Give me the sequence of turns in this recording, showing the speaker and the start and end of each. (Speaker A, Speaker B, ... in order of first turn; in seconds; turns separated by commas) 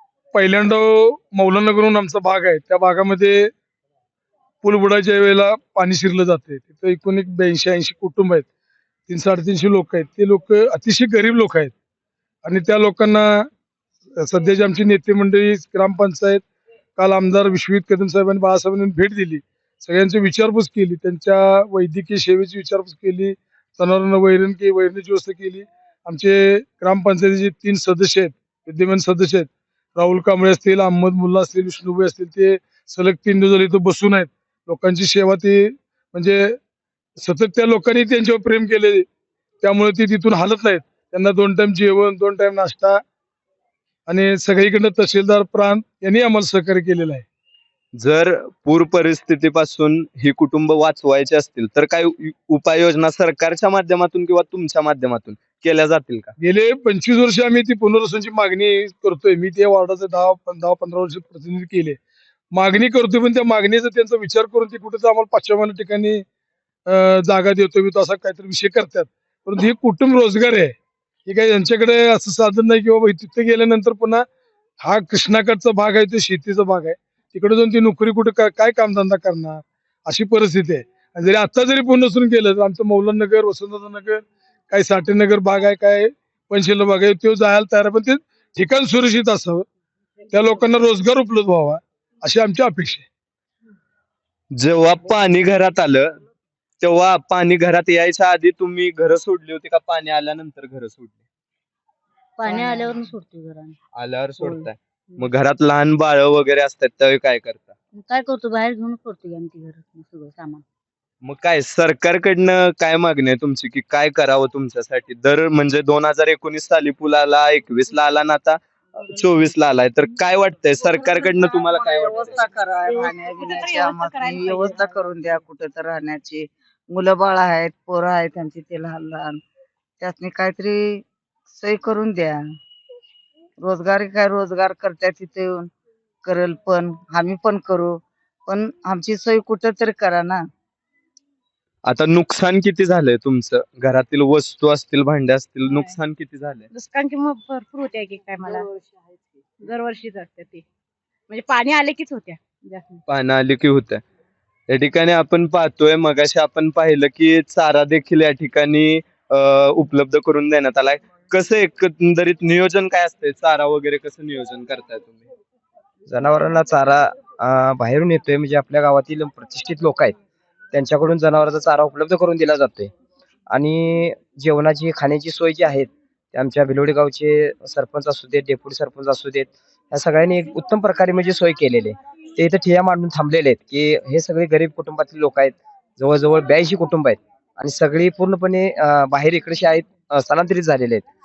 Speaker A: 0.3-3.5, Speaker A: 4.6-8.4, Speaker A: 9.1-11.7, Speaker A: 12.4-13.5, Speaker A: 14.2-16.4, Speaker A: 17.0-36.6, Speaker A: 37.2-39.0, Speaker A: 39.6-43.0, Speaker A: 44.1-47.2, Speaker B: 48.0-56.3, Speaker A: 56.4-62.0, Speaker A: 62.5-66.2, Speaker A: 66.9-70.7, Speaker A: 71.3-74.2, Speaker A: 74.8-89.6, Speaker A: 90.3-93.0, Speaker B: 94.6-96.1, Speaker B: 96.8-101.2, Speaker C: 102.4-103.7, Speaker D: 102.5-102.8, Speaker B: 104.0-107.7, Speaker C: 104.4-104.7, Speaker C: 107.9-110.6, Speaker B: 111.2-122.3, Speaker D: 120.9-129.4, Speaker E: 122.9-125.0, Speaker D: 130.0-132.4, Speaker D: 133.6-135.7, Speaker D: 136.2-140.4, Speaker B: 141.8-146.7, Speaker E: 145.7-146.0, Speaker E: 146.7-148.7, Speaker E: 149.6-150.6, Speaker E: 151.3-153.0, Speaker B: 153.1-154.0, Speaker B: 154.7-165.2, Speaker F: 166.1-170.1, Speaker F: 170.7-172.9, Speaker F: 173.5-191.1